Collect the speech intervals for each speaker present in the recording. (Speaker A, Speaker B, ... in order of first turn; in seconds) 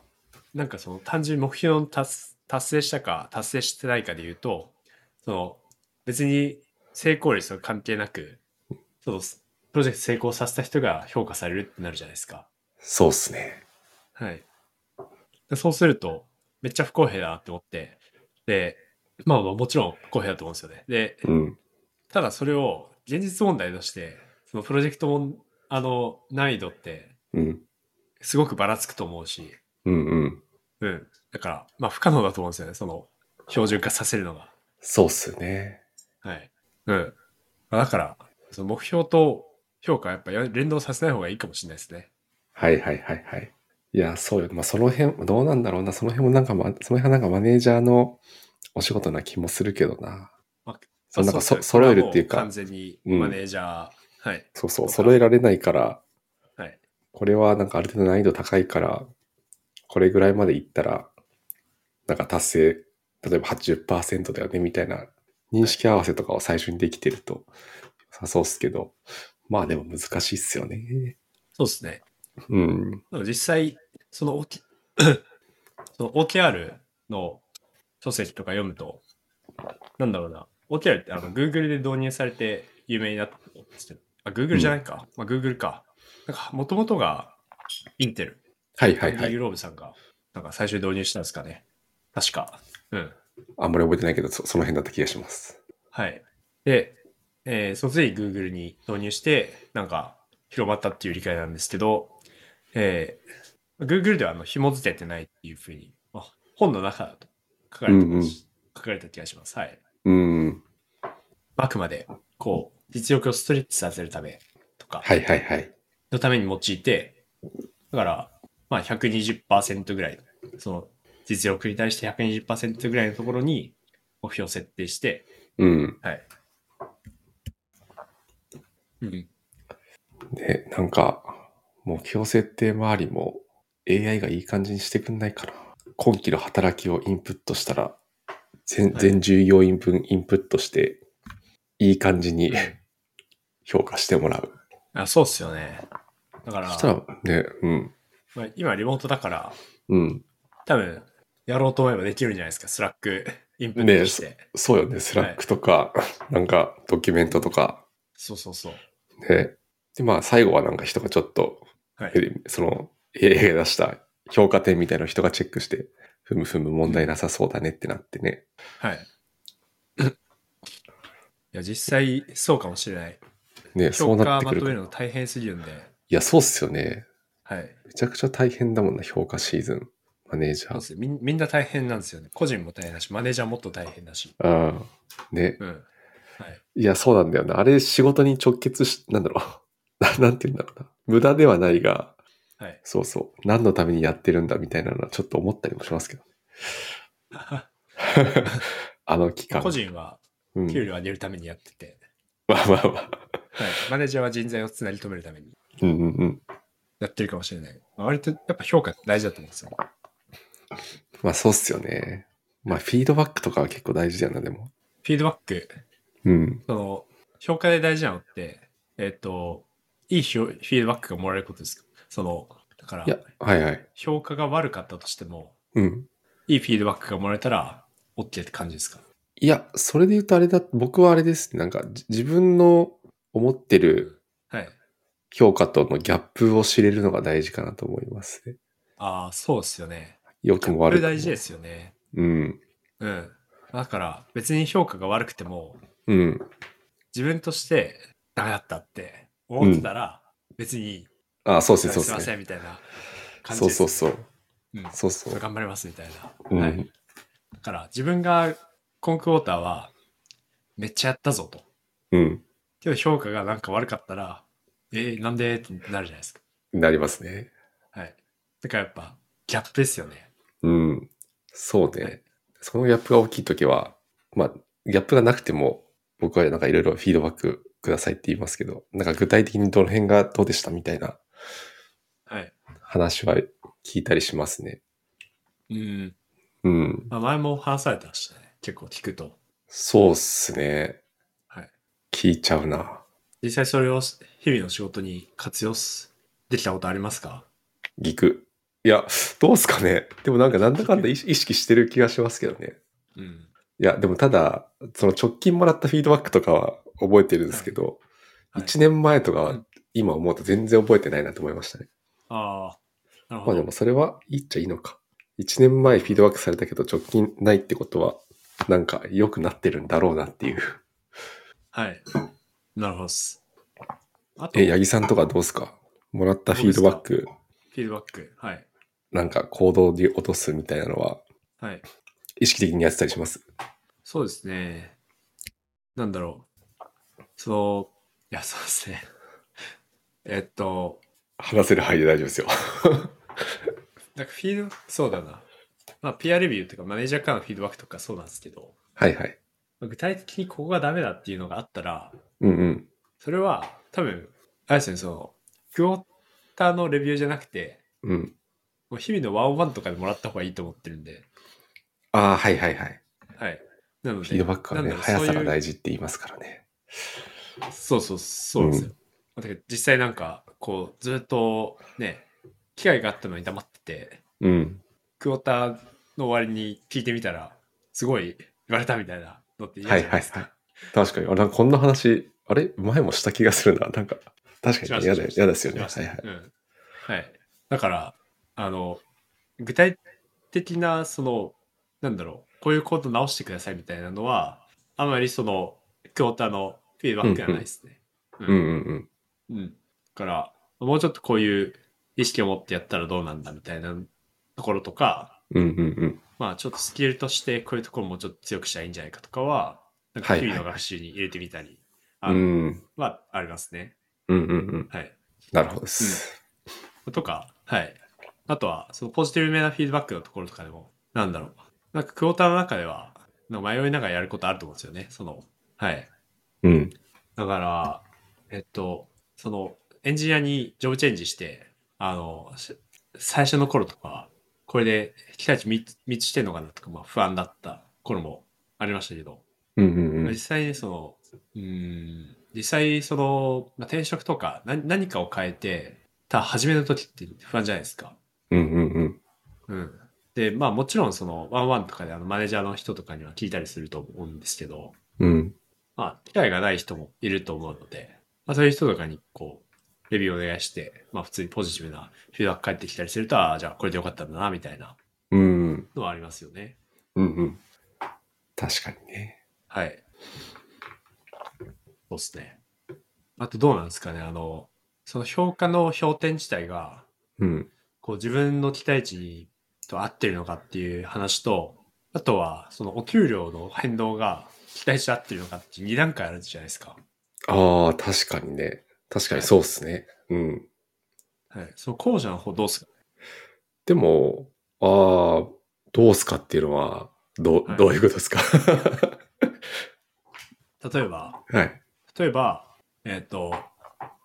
Speaker A: 0.5-8.4, 9.0-12.5, 14.2-14.5, 15.5-21.3, 22.1-27.1, 28.2-29.6, 30.8-34.5, 36.2-37.1, 37.7-42.1, 50.7-55.2, 71.6-72.0, 73.1-75.2, 76.0-77.4, 78.0-79.0, 80.0-87.4, 88.0-93.2, 95.9-102.2, 102.7-103.2, 103.8-109.8, 111.6-115.1, 116.1-117.2, 117.9-125.3, 129.0-129.3, 138.9-139.2, 142.5-142.8, 144.9-145.8, 146.4-146.9, 148.3-149.6, 150.7-154.4, 158.2-158.8, 166.8-167.1, 168.8-169.1, 171.5-173.2, 173.9-175.9, 177.5-177.8, 180.7-184.4, 185.6-186.6, 197.3-197.7, 199.5-202.0, 203.6-205.6, 207.0-209.7, 215.0-215.8, 216.7-223.2, 224.0-225.5, 226.5-229.0, 234.0-234.8, 239.0-241.9, 243.0-245.8, 247.1-251.1, 251.8-252.8, 253.4-254.1, 254.7-256.9, 257.6-259.9, 260.8-261.6, 262.8-266.4, 267.9-270.3, 282.3-282.5, 285.7-286.1, 287.1-289.4, 293.4-297.5, 300.7-301.1, 303.2-303.5, 307.5-307.8, 312.3-313.7, 315.9-316.2, 321.7-322.1, 322.8-323.4, 324.4-324.8, 326.5-327.1, 327.7-328.7, 334.1-335.0, 335.9-336.5, 337.4-339.1, 340.2-341.0, 344.1-345.5, 346.0-348.8, 349.8-352.2, 353.2-357.8, 358.9-361.3, 363.4-365.6, 367.7-374.2, 375.2-380.6, 384.8-386.5, 387.1-389.0, 389.6-390.0, 390.5-398.6, 399.5-405.4, 406.4-413.9, 414.9-416.2, 417.1-426.1, 427.4-439.4, 440.2-448.2, 449.7-454.9, 456.0-465.0, 465.9-466.8, 469.7-470.0, 472.1-472.6, 473.4-477.1, 478.0-487.0, 491.5-492.9, 500.8-501.4, 502.1-503.7
Speaker B: 12.8-13.6, 21.2-21.6, 27.3-27.6, 29.9-30.4, 34.8-35.8, 42.6-48.2, 48.8-50.3, 51.1-52.5, 53.0-53.4, 54.5-56.0, 57.1-59.1, 59.9-61.1, 62.1-67.5, 68.1-69.0, 69.5-71.2, 72.5-73.0, 88.8-89.3, 93.6-95.6, 107.9-108.4, 110.0-110.6, 115.0-115.7, 125.6-126.0, 130.3-138.0, 138.7-141.0, 141.8-142.8, 143.7-144.6, 146.7-147.9, 149.9-150.2, 153.8-157.8, 159.2-168.4, 173.8-174.7, 176.1-177.1, 177.9-180.8, 184.4-185.6, 186.8-192.2, 192.8-196.3, 198.0-199.8, 200.5-200.9, 202.5-203.4, 205.8-206.4, 211.2-214.7, 216.2-216.6, 223.1-223.8, 225.8-226.1, 229.4-234.1, 235.3-238.6, 240.4-241.4, 242.1-242.6, 246.1-246.5, 249.6-249.9, 251.4-252.3, 253.5-254.3, 254.9-255.4, 256.5-256.9, 262.1-262.4, 266.7-267.5, 270.6-281.2, 282.8-284.8, 286.6-287.1, 289.7-291.0, 292.1-293.0, 298.0-302.8, 303.8-308.0, 308.6-311.9, 313.5-320.8, 324.5-327.3, 329.1-331.2, 332.4-333.4, 341.4-343.1, 349.0-349.4, 352.4-352.9, 358.0-358.3, 362.1-363.0, 364.2-366.6, 368.6-368.9, 374.4-374.8, 379.9-386.2, 397.2-397.7, 398.5-399.1, 405.5-406.2, 410.2-410.7, 412.2-412.8, 414.3-414.9, 415.5-416.4, 426.6-426.9, 439.8-440.4, 448.5-449.2, 455.2-455.6, 465.3-465.9, 467.2-467.6, 468.6-469.4, 477.4-477.7, 487.5-490.7, 493.9-499.2, 501.5-501.8